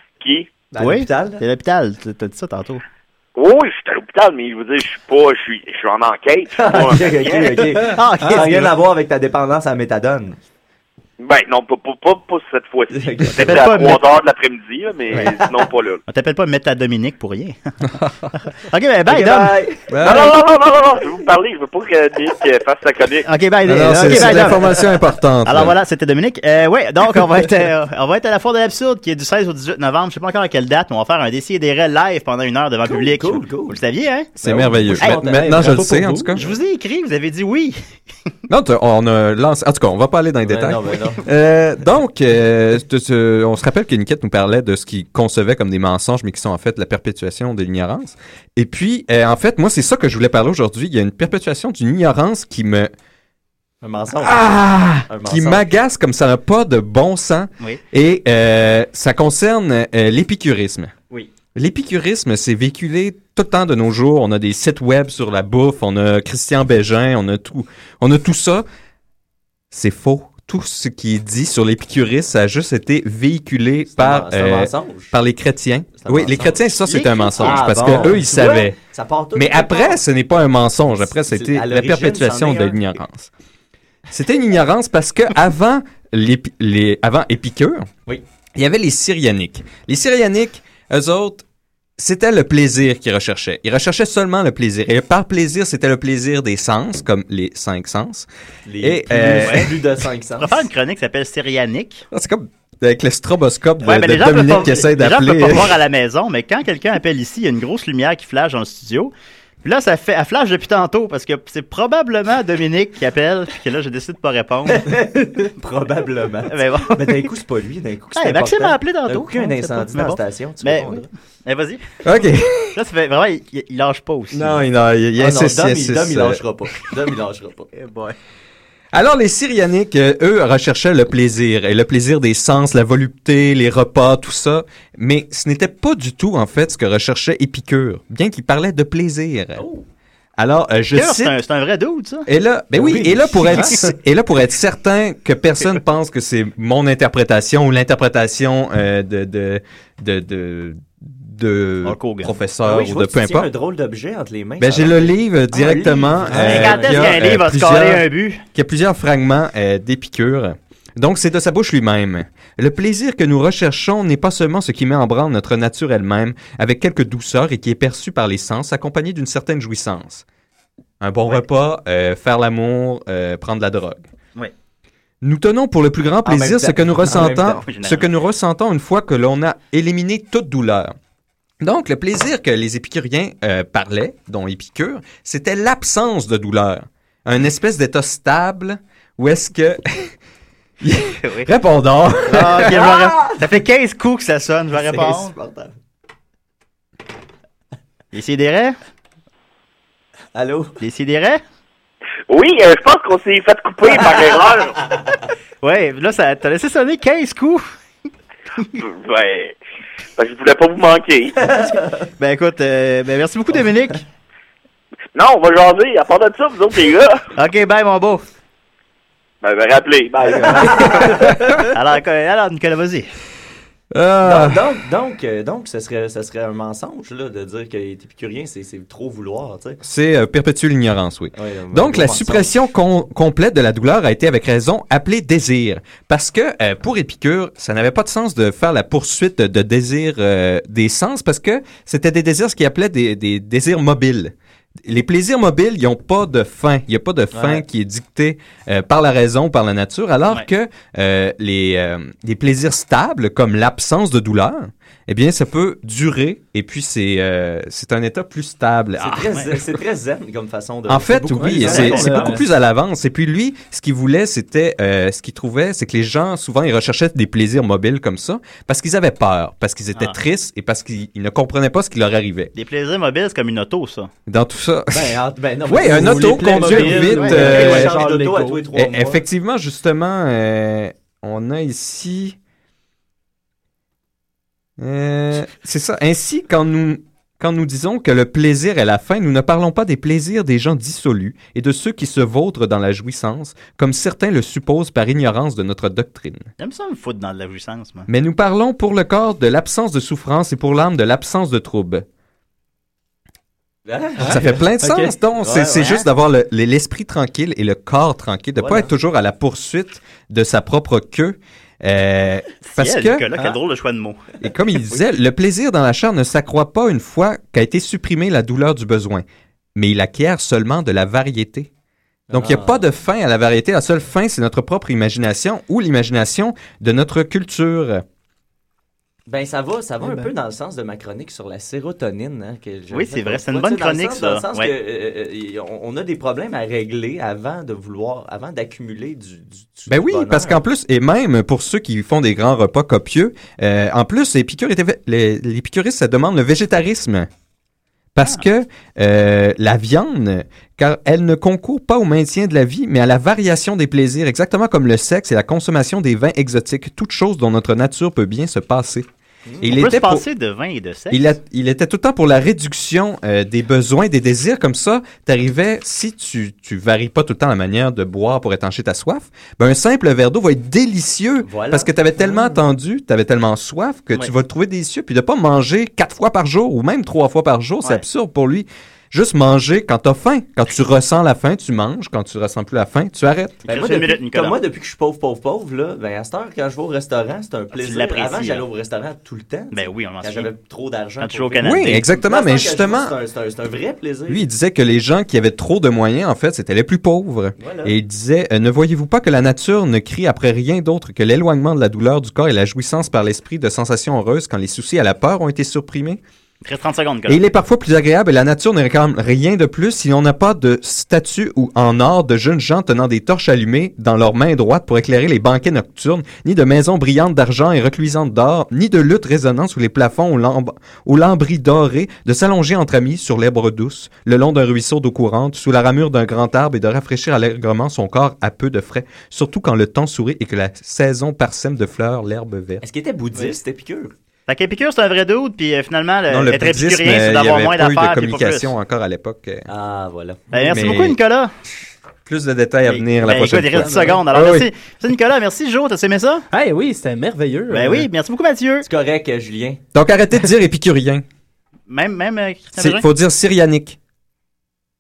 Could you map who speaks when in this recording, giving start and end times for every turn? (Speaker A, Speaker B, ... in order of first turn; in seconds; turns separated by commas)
Speaker A: 0.2-0.5, Speaker B: 0.7-1.4, Speaker C: 0.8-2.8, Speaker A: 3.4-7.6, Speaker B: 6.6-10.4, Speaker C: 7.3-8.7, Speaker A: 11.2-16.0, Speaker B: 12.9-13.9, Speaker C: 13.3-14.0, Speaker B: 15.2-15.5, Speaker C: 16.1-17.6, Speaker C: 18.5-19.7, Speaker B: 19.1-20.3, Speaker D: 19.9-20.4, Speaker A: 20.0-23.3, Speaker C: 23.2-37.8, Speaker D: 23.6-25.8, Speaker B: 32.9-33.8, Speaker B: 34.4-36.5, Speaker D: 34.4-36.4, Speaker E: 35.6-36.3, Speaker D: 38.5-52.9, Speaker B: 40.5-41.2, Speaker B: 53.8-55.6, Speaker D: 54.2-60.9, Speaker D: 61.5-68.7, Speaker D: 69.7-78.8, Speaker B: 73.9-75.1, Speaker B: 76.0-76.6, Speaker C: 76.8-78.2, Speaker B: 77.4-80.0, Speaker D: 79.3-83.3, Speaker B: 81.0-83.0, Speaker D: 84.1-87.9, Speaker D: 88.6-91.5, Speaker D: 92.0-98.3, Speaker B: 98.7-100.6, Speaker D: 98.8-99.7, Speaker C: 99.3-99.7, Speaker C: 100.4-102.1, Speaker D: 102.1-105.8, Speaker C: 103.8-115.0, Speaker B: 114.7-121.1, Speaker C: 116.5-117.3, Speaker C: 118.2-122.0, Speaker D: 122.0-122.8, Speaker C: 122.8-124.6, Speaker D: 124.3-126.4, Speaker B: 125.2-127.7, Speaker C: 127.7-128.2, Speaker D: 128.9-139.7, Speaker B: 139.6-139.8, Speaker D: 140.4-141.3, Speaker C: 140.9-143.8, Speaker D: 142.3-153.5, Speaker B: 142.8-143.7, Speaker C: 151.8-152.3, Speaker B: 152.6-157.2, Speaker D: 154.6-158.0, Speaker E: 156.3-156.7, Speaker C: 156.4-158.4, Speaker D: 158.6-170.2, Speaker D: 171.0-174.1, Speaker D: 175.2-180.9, Speaker B: 176.2-177.6, Speaker C: 177.1-178.1, Speaker D: 181.6-190.1, Speaker D: 190.8-192.8, Speaker C: 191.2-191.5, Speaker C: 192.2-195.4, Speaker B: 192.6-193.5, Speaker B: 194.8-195.7, Speaker C: 198.1-198.8, Speaker B: 200.3-200.8, Speaker C: 200.8-201.4, Speaker A: 202.3-204.8, Speaker C: 205.6-207.8, Speaker C: 208.6-208.8, Speaker A: 208.8-209.6, Speaker A: 210.2-211.5, Speaker B: 211.4-212.1, Speaker C: 212.2-214.1, Speaker A: 215.2-217.2, Speaker C: 217.4-218.2, Speaker A: 219.4-221.1, Speaker B: 220.5-221.3, Speaker C: 220.8-223.1, Speaker D: 221.2-221.6, Speaker D: 223.9-224.6, Speaker B: 224.2-229.8, Speaker D: 229.8-244.3, Speaker B: 231.3-232.5, Speaker D: 244.8-259.2, Speaker B: 247.3-247.6, Speaker B: 259.0-262.4, Speaker C: 259.3-259.6, Speaker D: 260.9-272.5, Speaker E: 261.4-262.4, Speaker C: 269.9-270.2, Speaker C: 272.6-274.1, Speaker D: 274.3-278.0, Speaker B: 274.9-279.2, Speaker E: 275.7-278.6, Speaker C: 277.1-277.8, Speaker D: 278.8-282.4, Speaker D: 284.8-296.5, Speaker C: 296.6-298.1, Speaker D: 298.1-302.1, Speaker B: 303.9-304.6, Speaker E: 304.2-305.2, Speaker D: 304.2-313.3, Speaker B: 305.4-306.1, Speaker B: 308.6-308.9, Speaker C: 312.6-314.2, Speaker D: 314.4-319.2, Speaker B: 314.8-315.1, Speaker D: 319.8-321.7, Speaker B: 322.3-322.9, Speaker D: 322.3-328.0, Speaker B: 329.3-340.6, Speaker C: 332.9-334.7, Speaker D: 339.9-347.3, Speaker D: 348.1-359.1, Speaker D: 359.6-360.2, Speaker C: 359.7-361.4, Speaker D: 361.1-383.6, Speaker B: 371.4-372.7, Speaker C: 383.6-384.6, Speaker B: 383.7-394.4, Speaker C: 387.7-388.7, Speaker C: 389.7-390.5, Speaker C: 391.2-392.1, Speaker D: 391.6-393.1, Speaker D: 394.3-406.2, Speaker B: 397.6-398.0, Speaker C: 406.6-407.4, Speaker D: 407.3-432.8, Speaker B: 432.8-434.1, Speaker C: 434.5-438.8, Speaker D: 436.3-439.7, Speaker B: 439.7-440.6, Speaker C: 440.5-441.5, Speaker D: 440.7-441.2, Speaker D: 442.2-444.7, Speaker C: 442.9-446.4, Speaker E: 443.8-444.1, Speaker E: 446.5-448.1, Speaker C: 447.7-448.9, Speaker B: 448.9-449.8, Speaker D: 449.9-451.2, Speaker C: 451.9-453.1, Speaker D: 452.8-454.0